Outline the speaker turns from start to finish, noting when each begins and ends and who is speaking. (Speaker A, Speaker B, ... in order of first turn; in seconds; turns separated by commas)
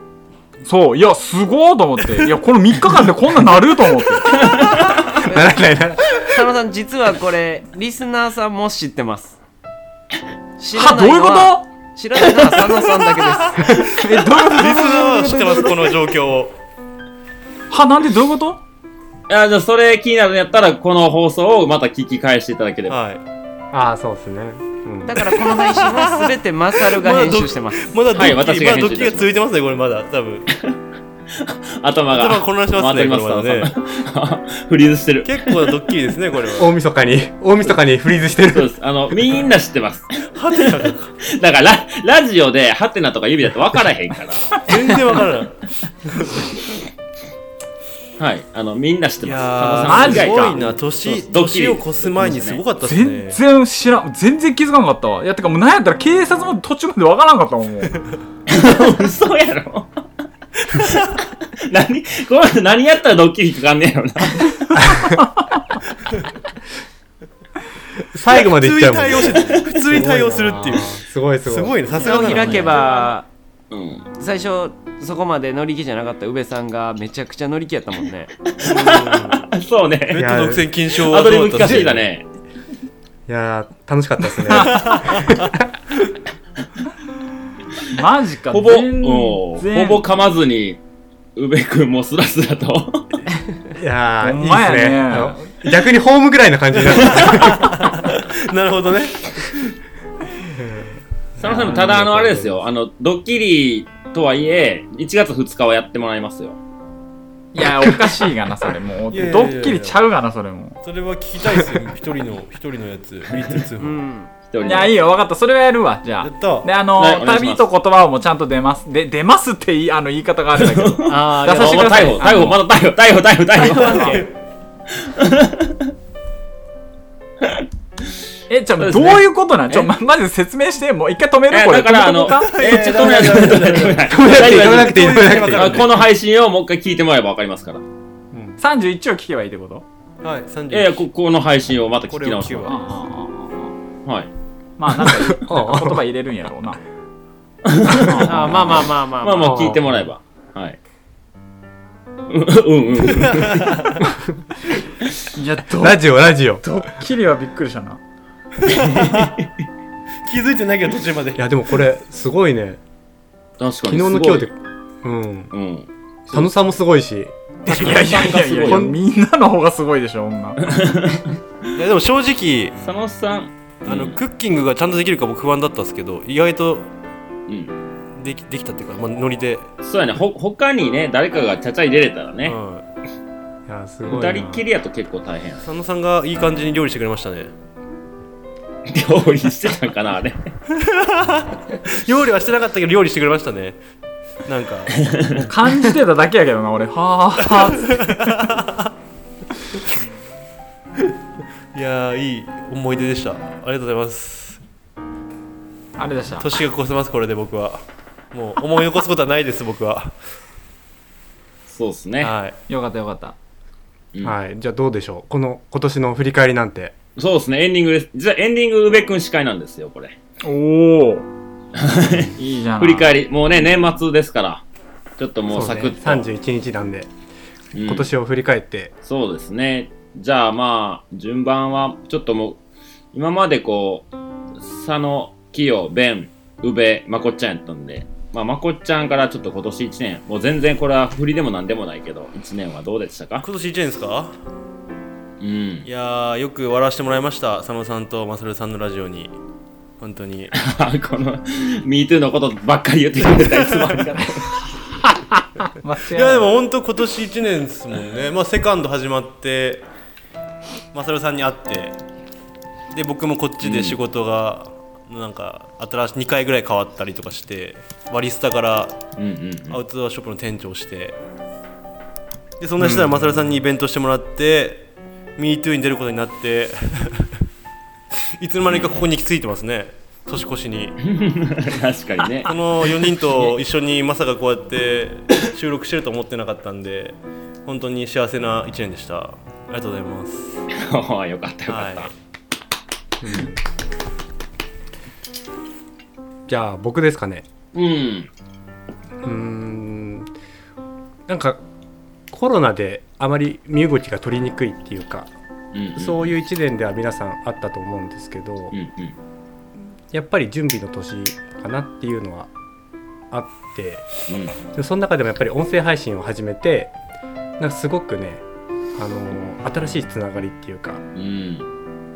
Speaker A: 0.6-4.4, Speaker B: 5.1-6.2, Speaker C: 5.2-9.4, Speaker C: 10.6-13.8, Speaker A: 10.7-11.7, Speaker D: 13.6-16.5, Speaker A: 13.8-16.0, Speaker A: 17.7-18.6, Speaker E: 19.3-22.9, Speaker D: 22.9-23.2, Speaker B: 23.7-25.3, Speaker C: 25.1-27.9, Speaker D: 25.6-30.5, Speaker E: 28.1-29.3, Speaker E: 31.4-35.8, Speaker D: 32.1-33.7, Speaker D: 35.2-36.8, Speaker B: 36.6-38.7, Speaker E: 38.5-45.0, Speaker D: 40.3-41.1, Speaker D: 44.6-46.5, Speaker E: 48.2-52.6, Speaker D: 49.2-53.4, Speaker A: 49.8-50.6, Speaker A: 52.8-58.0, Speaker E: 58.5-60.0, Speaker E: 60.7-64.8, Speaker B: 64.7-65.2, Speaker B: 68.1-71.8, Speaker D: 68.3-72.8, Speaker E: 69.4-69.6, Speaker C: 71.9-73.3, Speaker E: 73.7-74.0, Speaker C: 74.2-78.3, Speaker E: 78.6-80.2, Speaker D: 78.6-79.4, Speaker D: 80.1-82.0, Speaker B: 80.2-80.7, Speaker E: 81.0-82.2, Speaker B: 81.6-82.0, Speaker B: 83.3-85.7, Speaker D: 84.7-85.4, Speaker A: 87.9-90.0, Speaker E: 88.5-90.8, Speaker E: 91.3-93.2, Speaker B: 93.7-97.8, Speaker A: 94.2-95.5, Speaker D: 96.9-99.8, Speaker B: 100.5-102.3, Speaker E: 101.4-106.6, Speaker D: 101.8-102.4, Speaker A: 107.5-110.8, Speaker D: 109.1-110.0, Speaker D: 110.8-114.0, Speaker C: 113.8-114.3, Speaker E: 114.5-115.0, Speaker A: 114.6-122.6, Speaker D: 116.2-116.7, Speaker E: 117.0-117.6, Speaker E: 120.6-124.2, Speaker C: 121.1-122.3, Speaker D: 123.6-124.3, Speaker A: 123.8-124.1, Speaker E: 125.0-125.9, Speaker A: 128.5-133.0, Speaker E: 128.8-129.9, Speaker E: 131.5-137.8, Speaker D: 132.5-136.0, Speaker B: 134.0-135.8, Speaker A: 138.6-139.8, Speaker D: 140.2-141.0, Speaker E: 140.7-142.8, Speaker D: 142.1-142.8, Speaker A: 142.7-143.7, Speaker A: 144.8-146.8, Speaker B: 145.2-146.0, Speaker E: 147.6-150.8, Speaker A: 148.0-148.3, Speaker C: 148.2-149.8, Speaker B: 149.4-149.8, Speaker E: 152.3-153.9, Speaker D: 153.2-153.9, Speaker A: 155.3-156.0, Speaker B: 155.8-156.6, Speaker A: 156.6-158.0, Speaker E: 158.7-159.5, Speaker D: 158.7-159.3, Speaker D: 160.2-161.4, Speaker B: 161.4-162.8, Speaker E: 163.6-164.5, Speaker B: 163.9-165.5, Speaker E: 165.5-166.5, Speaker B: 166.3-167.3, Speaker A: 167.6-170.8, Speaker E: 167.7-168.9, Speaker B: 167.8-169.0, Speaker D: 167.9-168.1, Speaker E: 170.6-171.4, Speaker D: 171.8-172.8, Speaker E: 172.8-174.2, Speaker D: 173.8-176.9, Speaker E: 177.5-177.8, Speaker D: 178.2-179.7, Speaker E: 179.8-182.5, Speaker D: 182.4-182.8, Speaker B: 183.7-184.6, Speaker E: 184.1-185.6, Speaker D: 185.6-187.5, Speaker E: 188.9-190.5, Speaker D: 190.7-193.8, Speaker D: 194.4-195.4, Speaker E: 195.0-195.4, Speaker A: 195.4-198.4, Speaker D: 197.6-198.9, Speaker D: 201.7-204.6, Speaker A: 206.0-206.5, Speaker D: 206.4-210.2, Speaker E: 211.7-212.3, Speaker D: 212.2-212.6, Speaker A: 212.7-213.3, Speaker B: 214.2-216.9, Speaker E: 217.2-220.2, Speaker A: 220.4-221.3, Speaker E: 221.7-224.6, Speaker A: 222.3-223.2, Speaker E: 225.2-226.3, Speaker B: 225.5-227.1, Speaker E: 227.7-228.1, Speaker B: 227.8-228.9, Speaker E: 229.0-232.6, Speaker E: 233.1-243.4, Speaker D: 243.4-244.3, Speaker E: 245.4-245.9, Speaker D: 245.8-249.3, Speaker D: 250.0-250.5, Speaker E: 250.5-254.6, Speaker D: 253.4-253.9, Speaker A: 255.8-256.5, Speaker D: 256.1-259.8, Speaker D: 260.9-261.9, Speaker D: 262.9-269.0, Speaker E: 263.6-264.0, Speaker E: 269.2-269.8, Speaker D: 269.7-271.1, Speaker D: 272.6-277.3, Speaker D: 278.4-281.0, Speaker E: 278.7-279.0, Speaker E: 281.0-282.5, Speaker D: 282.4-290.6, Speaker E: 290.7-292.1, Speaker D: 291.7-292.1, Speaker B: 293.2-293.6, Speaker B: 296.5-297.4, Speaker E: 297.7-298.3, Speaker B: 299.2-300.3, Speaker B: 301.3-301.6, Speaker B: 302.3-305.3, Speaker E: 305.7-306.3, Speaker B: 305.9-308.7, Speaker E: 308.7-309.1, Speaker B: 310.1-312.5, Speaker B: 313.3-314.1, Speaker E: 314.3-314.5, Speaker B: 314.7-316.9, Speaker B: 317.6-318.4, Speaker B: 318.9-321.0, Speaker E: 321.1-321.6